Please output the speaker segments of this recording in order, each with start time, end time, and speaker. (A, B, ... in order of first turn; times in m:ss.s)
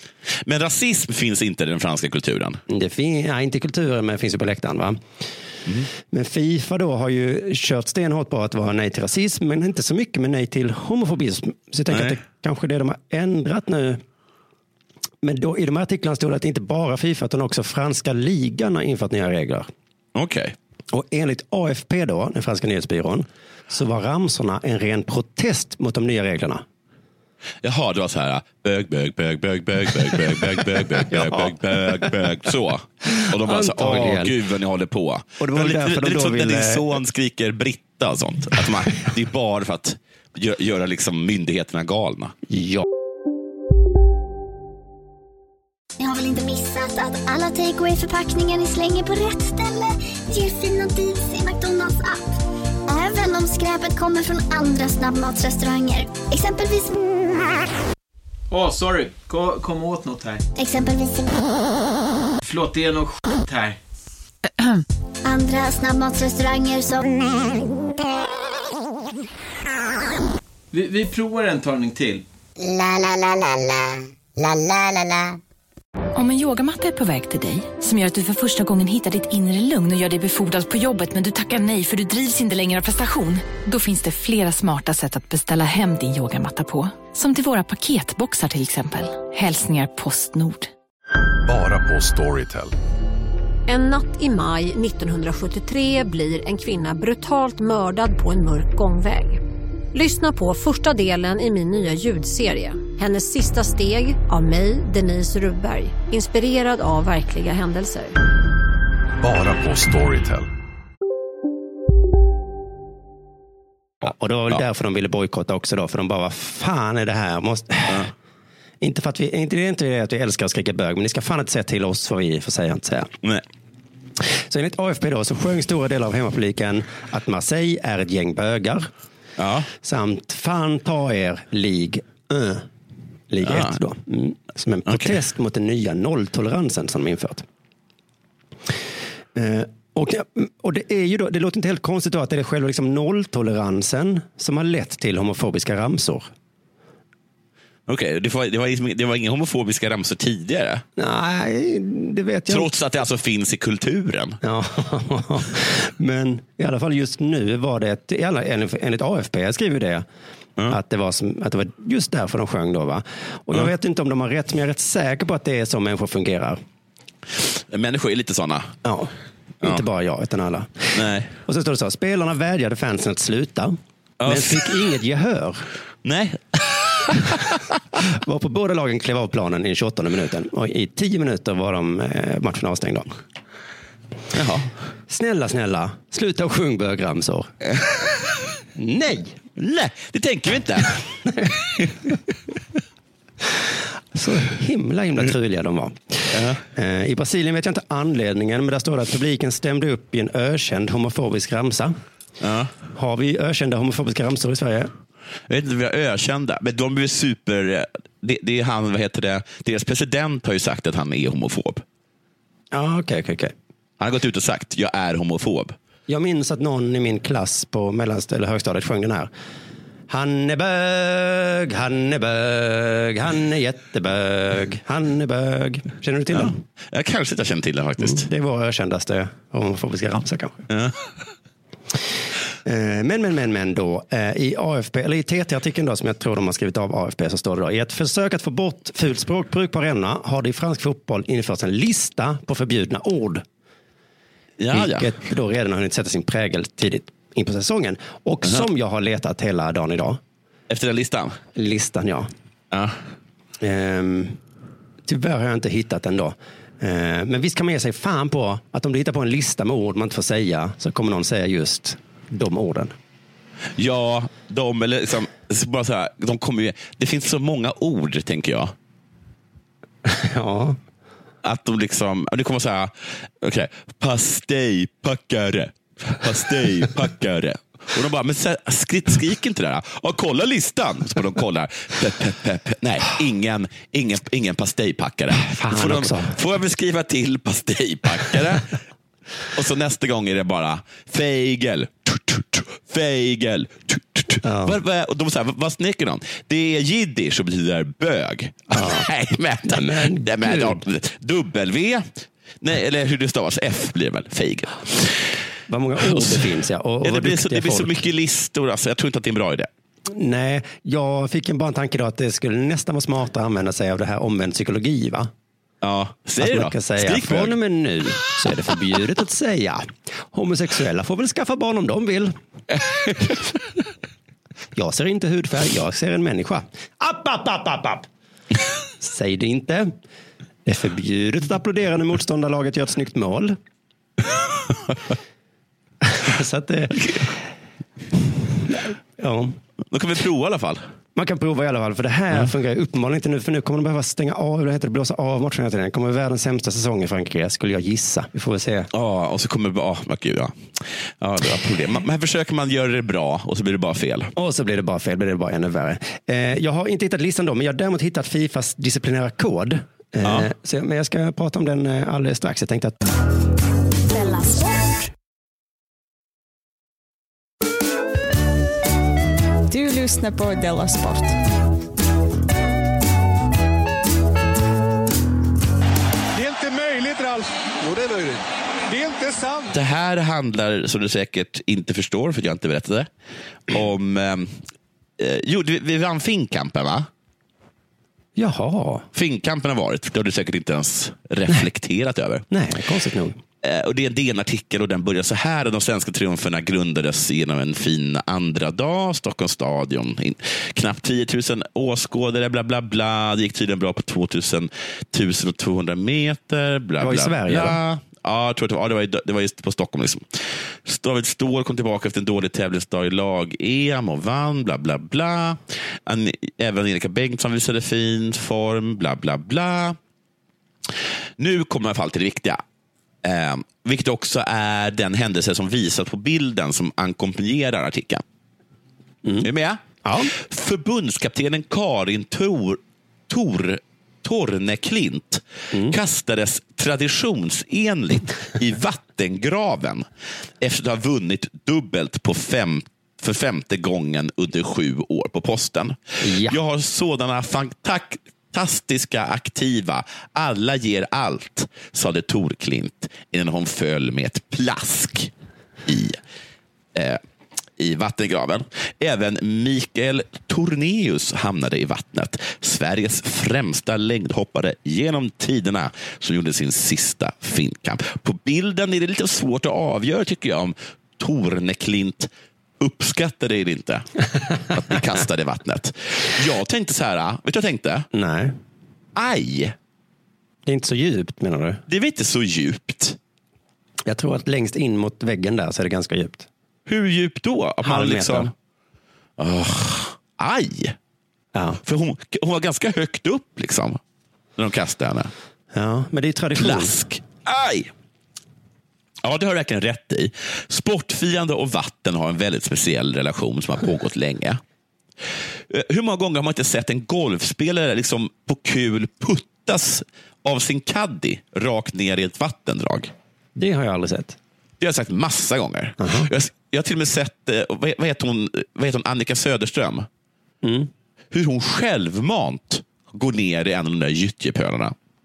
0:00.4-0:02.6 A
0:02.7-0:05.0 B
0:06.1-0:14.0 B
0:11.9-0:12.2 A
0:15.2-0:19.7 B
0:20.1-0:20.6 A
0:20.9-0:26.6 B
0:27.6-0:42.4 A
0:31.0-0:32.2 B
0:33.1-0:34.3 B
0:35.4-0:36.9 B
0:42.5-0:42.9 B
0:46.0-0:52.3 C
0:52.9-0:57.0 C
0:58.5-1:00.4 D
1:00.6-1:01.4 C
1:02.4-1:03.8 D
1:05.2-1:07.4 C
1:10.7-1:12.2 D
1:12.8-1:13.2 C
1:16.1-1:30.7 E
1:31.4-1:32.7 F
1:33.7-1:39.4 G
1:39.9-1:48.1 G
1:49.2-1:50.5 F
1:54.0-1:58.0 B
1:58.8-2:03.1 B
2:04.2-2:08.9 B
2:09.4-2:09.7 A
2:09.8-2:12.6 B
2:13.3-2:17.4 B
2:13.4-2:13.8 A
2:14.9-2:15.2 A
2:19.4-2:26.3 B
2:27.9-2:30.8 A
2:31.0-2:32.7 B
2:32.5-2:34.4 A
2:34.4-2:40.0 B
2:40.7-2:46.6 B
2:47.4-2:48.7 A
2:48.8-2:55.7 B
2:50.9-2:51.3 A
2:54.2-2:54.7 A
2:56.0-2:57.6 A
2:58.0-3:03.1 B
3:04.3-3:04.7 A
3:05.1-3:07.5 B
3:08.8-3:09.4 B
3:09.6-3:10.9 A
3:11.2-3:11.9 B
3:14.1-3:21.9 B
3:16.3-3:16.6 A
3:22.4-3:22.7 A
3:22.9-3:24.9 B
3:25.5-3:31.8 A
3:32.7-3:33.5 B
3:34.0-3:35.8 A
3:36.1-3:39.3 B
3:40.1-3:46.6 B
3:46.3-3:48.3 A
3:48.0-3:50.6 B
3:50.7-3:51.0 A
3:52.6-4:03.4 B
4:04.6-4:05.1 A
4:04.7-4:10.2 B
4:10.7-4:11.4 A
4:11.5-4:12.3 B
4:12.7-4:13.0 A
4:13.6-4:14.4 B
4:15.1-4:22.9 B
4:23.8-4:28.7 A
4:30.0-4:30.8 B
4:31.4-4:48.7 A
4:45.5-4:46.4 B
4:49.5-5:05.3 A
4:54.4-4:54.8 B
4:58.7-4:59.1 B
4:59.6-5:00.8 B
5:05.7-5:08.0 B
5:06.0-5:06.5 A
5:07.0-5:09.7 A
5:10.1-5:15.3 B
5:15.8-5:17.6 A
5:16.4-5:22.3 B
5:23.1-5:23.4 B
5:24.8-5:28.0 B
5:29.0-5:29.9 B
5:30.6-5:33.6 B
5:36.0-5:37.4 B
5:38.6-5:39.6 B
5:39.9-5:40.8 A
5:41.1-5:48.9 B
5:48.9-5:54.3 A
5:54.4-6:03.0 B
6:00.2-6:00.5 A
6:04.1-6:05.0 H
6:09.7-6:11.4 H
6:16.4-6:19.7 I
6:19.7-6:23.1 A
6:23.7-6:24.6 A
6:25.2-6:27.1 A
6:28.4-6:29.1 B
6:29.1-6:32.4 A
6:32.5-6:33.4 B
6:33.6-7:00.0 A
6:47.0-6:47.8 B
7:01.4-7:02.6 A
7:03.2-7:08.2 A
7:09.2-7:09.5 B
7:09.4-7:20.1 A
7:10.0-7:10.3 B
7:20.6-7:35.3 A
7:26.2-7:26.6 B
7:35.8-7:36.2 A
7:36.9-7:37.2 A
7:37.8-7:54.0 A
7:54.7-7:58.1 A
7:58.1-7:58.6 B
7:59.1-7:59.7 A
8:00.6-8:01.8 B
8:01.9-8:03.2 A
8:04.1-8:06.5 B
8:06.9-8:08.5 A
8:07.8-8:08.5 B
8:09.4-8:11.0 A
8:11.5-8:11.8 B
8:11.8-8:14.0 A
8:14.6-8:15.3 A
8:15.7-8:17.0 B
8:16.6-8:17.9 A
8:19.2-8:24.6 A
8:25.7-8:33.1 A
8:33.6-8:34.4 B
8:34.8-8:40.1 A
8:36.0-8:36.3 B
8:40.6-8:40.9 B
8:41.3-8:44.9 A